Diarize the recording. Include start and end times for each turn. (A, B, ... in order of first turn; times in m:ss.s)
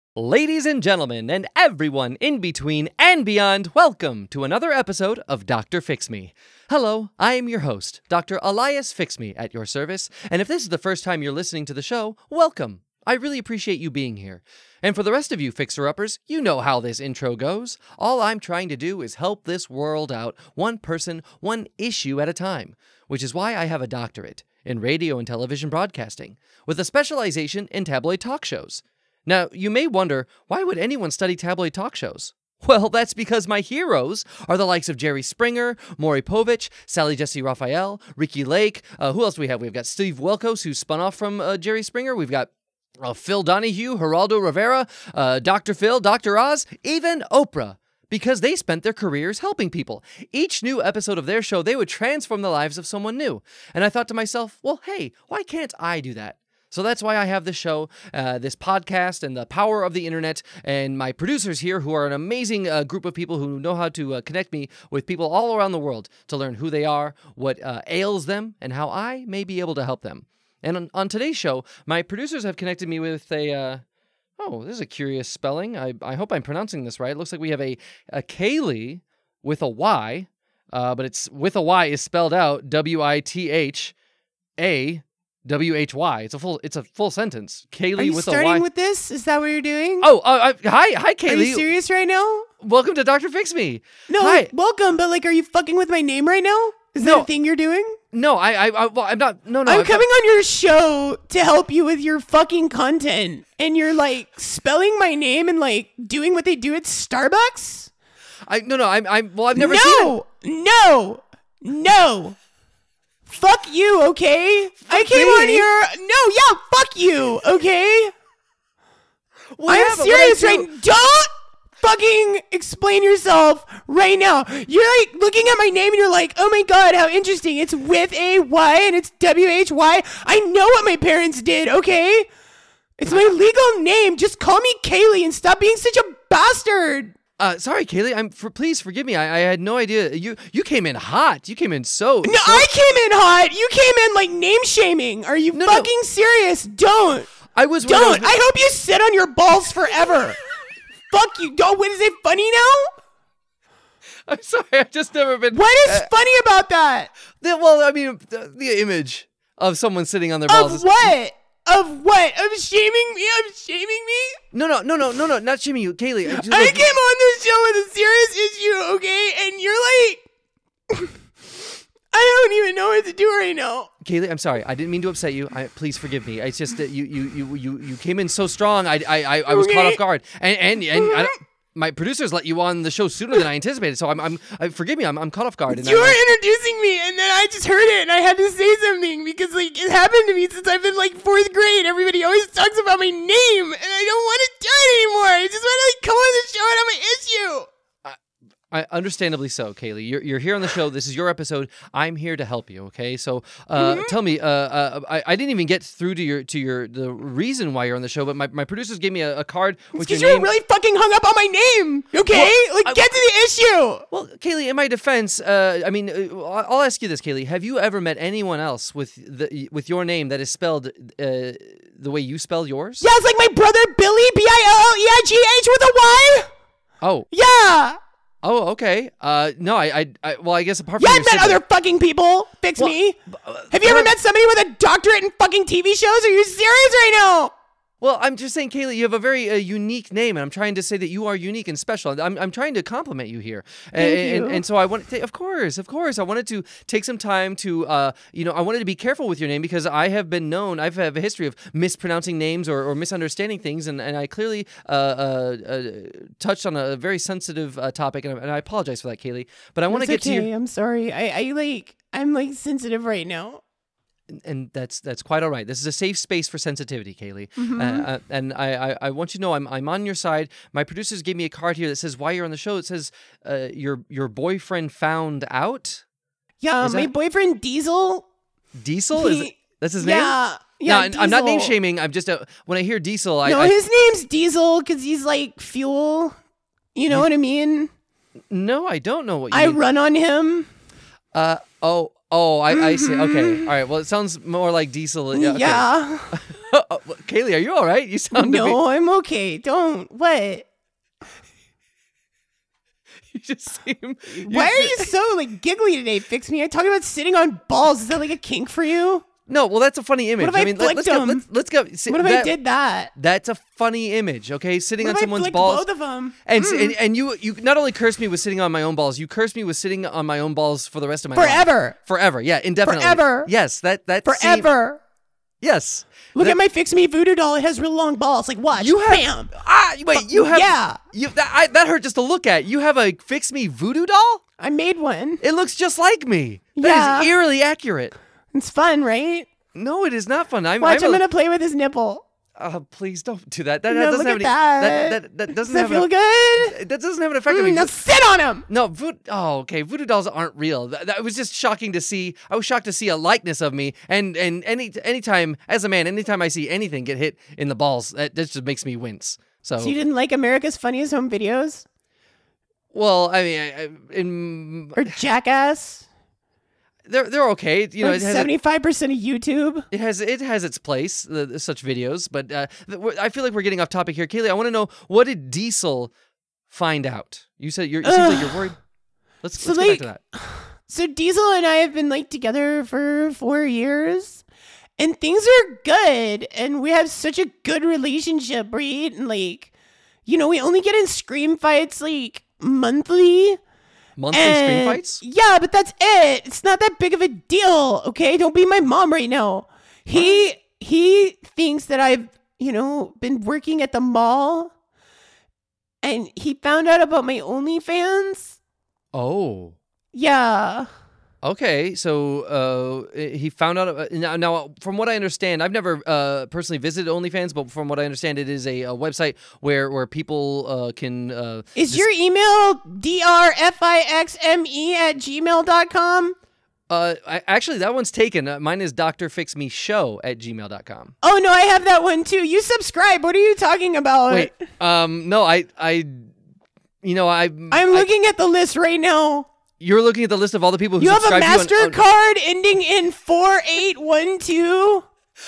0:00.2-1:13.8 A
1:14.4-1:23.9 A
1:24.6-1:28.6 A
1:28.0-1:30.1 B
1:30.0-1:31.7 A
1:31.2-1:32.5 B
1:32.6-1:34.5 A
1:34.1-1:38.0 B
1:37.0-1:37.3 A
1:38.1-1:40.0 A
1:39.6-1:47.9 B
1:48.5-1:50.1 A
1:49.5-1:52.4 B
1:53.3-1:58.1 B
1:54.8-1:55.7 A
1:59.5-2:00.7 A
1:59.7-2:12.3 B
2:13.0-2:17.1 B
2:17.4-2:22.7 A
2:22.2-2:27.3 B
2:25.6-2:25.9 A
2:27.5-2:28.3 A
2:27.8-2:30.4 B
2:31.1-2:32.9 B
2:34.3-2:36.1 A
2:35.5-2:37.1 B
2:37.4-2:41.1 A
2:40.5-2:44.4 B
2:44.5-2:46.9 A
2:46.2-2:50.2 B
2:52.1-2:53.9 B
2:54.0-3:06.2 A
2:59.5-3:00.0 B
3:00.9-3:01.3 B
3:05.7-3:17.7 B
3:18.7-3:30.5 A
3:23.8-3:24.1 B
3:29.9-3:34.0 B
3:32.3-3:33.0 A
3:34.1-3:43.0 A
3:43.0-3:46.5 B
3:47.0-3:47.3 A
3:47.3-3:48.0 B
3:48.4-3:51.6 A
3:51.0-3:53.2 B
3:52.8-3:54.1 A
3:53.7-3:57.5 B
3:58.0-4:20.5 A
4:04.0-4:04.6 B
4:19.9-4:23.6 B
4:24.3-4:36.0 A
4:27.6-4:28.1 B
4:36.6-4:38.2 B
4:36.8-4:37.1 A
4:38.8-4:43.7 A
4:39.1-4:41.8 B
4:43.4-4:46.4 B
4:46.9-4:47.9 B
4:48.5-4:49.8 A
4:49.5-4:50.7 B
4:51.3-4:58.8 A
4:52.7-4:53.7 B
4:55.3-4:56.4 B
4:58.3-5:00.6 B
5:03.3-5:05.1 A
5:04.5-5:09.2 B
5:09.5-5:12.5 A
5:10.4-5:11.4 B
5:12.1-5:13.1 B
5:13.1-5:15.9 A
5:15.0-5:16.9 B
5:16.4-5:24.7 A
5:21.3-5:22.0 B
5:22.8-5:23.5 B
5:24.2-5:25.0 B
5:25.6-5:26.6 A
5:26.3-5:29.5 B
5:28.7-5:34.4 A
5:30.1-5:31.0 B
5:34.6-5:35.4 B
5:35.4-5:38.2 A
5:36.8-5:37.3 B
5:38.5-5:39.5 B
5:39.7-5:41.2 A
5:40.8-5:42.2 B
5:42.6-5:46.1 A
5:43.9-5:46.8 B
5:46.6-5:47.9 A
5:47.5-5:48.6 B
5:48.7-6:00.0 A
5:59.8-6:01.8 B
6:02.9-6:05.1 A
6:05.0-6:06.0 B
6:07.1-6:08.5 A
6:08.0-6:09.8 B
6:09.9-6:16.1 A
6:16.7-6:18.8 A
6:18.0-6:18.7 B
6:19.4-6:20.2 A
6:19.6-6:24.4 B
6:25.0-6:29.7 B
6:30.2-6:33.6 B
6:34.2-6:35.2 A
6:34.3-6:44.7 B
6:40.1-6:40.4 A
6:46.0-6:48.6 B
6:49.1-6:49.8 A
6:50.1-6:50.9 B
6:51.4-7:02.0 A
7:01.8-7:06.4 B
7:06.9-7:11.1 A
7:11.2-7:14.6 B
7:14.3-7:16.3 A
7:17.0-7:18.1 A
7:17.7-7:19.5 B
7:19.8-7:22.0 A
7:21.0-7:25.0 B